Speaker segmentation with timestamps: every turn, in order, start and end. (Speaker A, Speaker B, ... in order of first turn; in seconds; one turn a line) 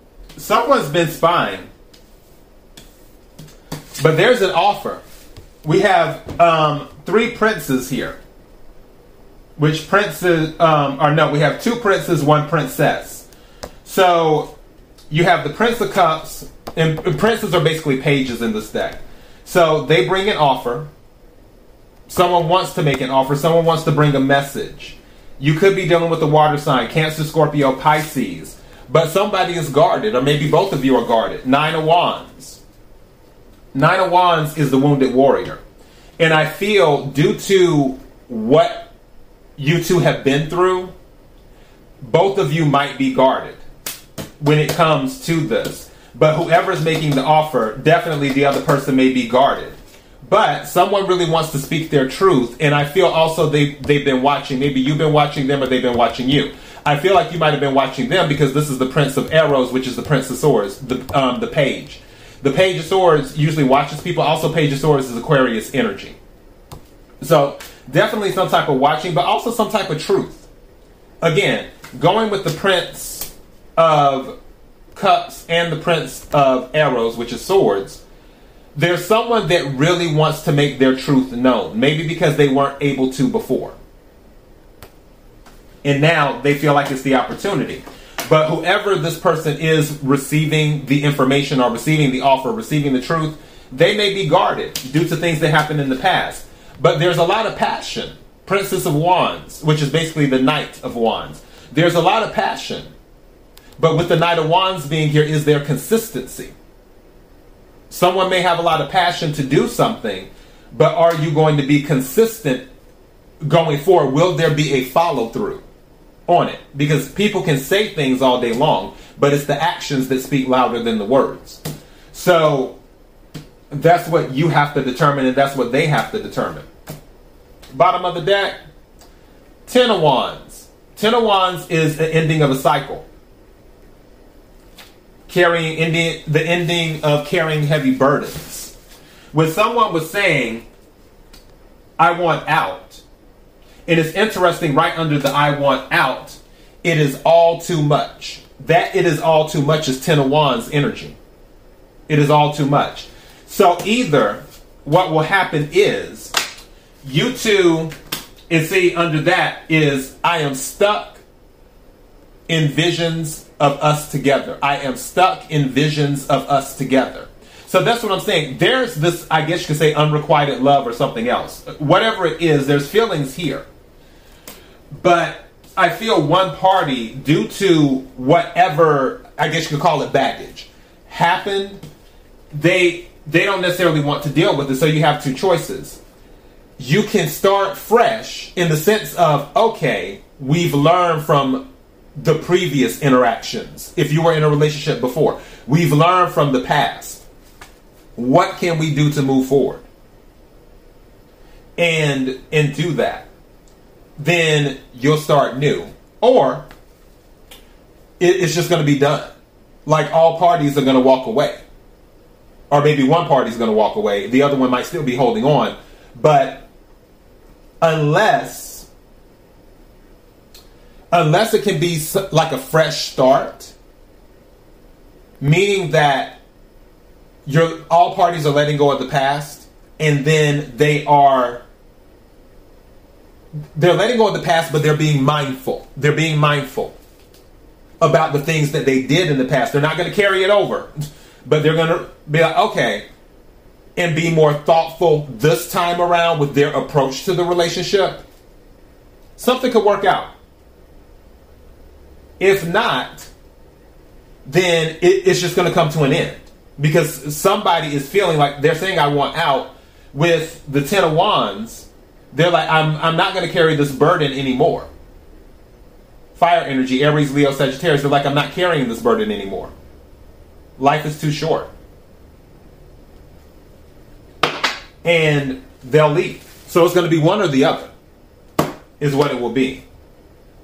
Speaker A: 0.4-1.7
Speaker A: 4.0-5.0
Speaker A: 5.6-8.2
Speaker A: 9.6-13.3
Speaker A: 13.8-14.6
Speaker A: 15.1-20.9
Speaker A: 22.1-32.6
Speaker A: 33.7-35.6
Speaker A: 36.2-38.9
Speaker A: 39.6-40.9
Speaker A: 42.0-43.6
Speaker A: 44.4-66.2
Speaker A: 67.2-70.5
Speaker A: 71.2-74.4
Speaker A: 75.0-78.0
Speaker A: 78.8-83.8
Speaker A: 85.8-102.9
Speaker A: 103.8-106.5
Speaker A: 107.9-112.7
Speaker A: 113.4-115.6
Speaker A: 116.3-122.8
Speaker A: 123.7-126.7
Speaker A: 127.7-128.6
Speaker A: 129.7-133.1
Speaker A: 135.3-138.8
Speaker A: 139.3-140.7
Speaker A: 142.0-143.0
Speaker A: 143.9-151.2
Speaker A: 152.1-156.3
Speaker A: 157.0-157.9
Speaker A: 158.5-161.2
Speaker A: 162.5-173.7
Speaker A: 174.9-181.8
Speaker A: 182.5-186.0
Speaker A: 186.8-197.2
Speaker A: 198.2-199.9
Speaker A: 201.8-203.3
Speaker A: 204.2-206.7
Speaker A: 208.2-209.3
Speaker A: 209.9-211.6
Speaker A: 212.7-216.7
Speaker A: 217.8-218.9
Speaker A: 221.1-223.7
Speaker A: 225.4-226.4
Speaker A: 227.5-231.6
Speaker A: 233.8-237.0
Speaker A: 238.0-243.1
Speaker A: 244.0-248.2
Speaker A: 249.4-250.3
Speaker A: 252.4-253.3
Speaker A: 254.4-264.9
Speaker A: 266.4-269.7
Speaker A: 270.8-271.7
Speaker A: 275.0-277.9
Speaker A: 279.0-279.9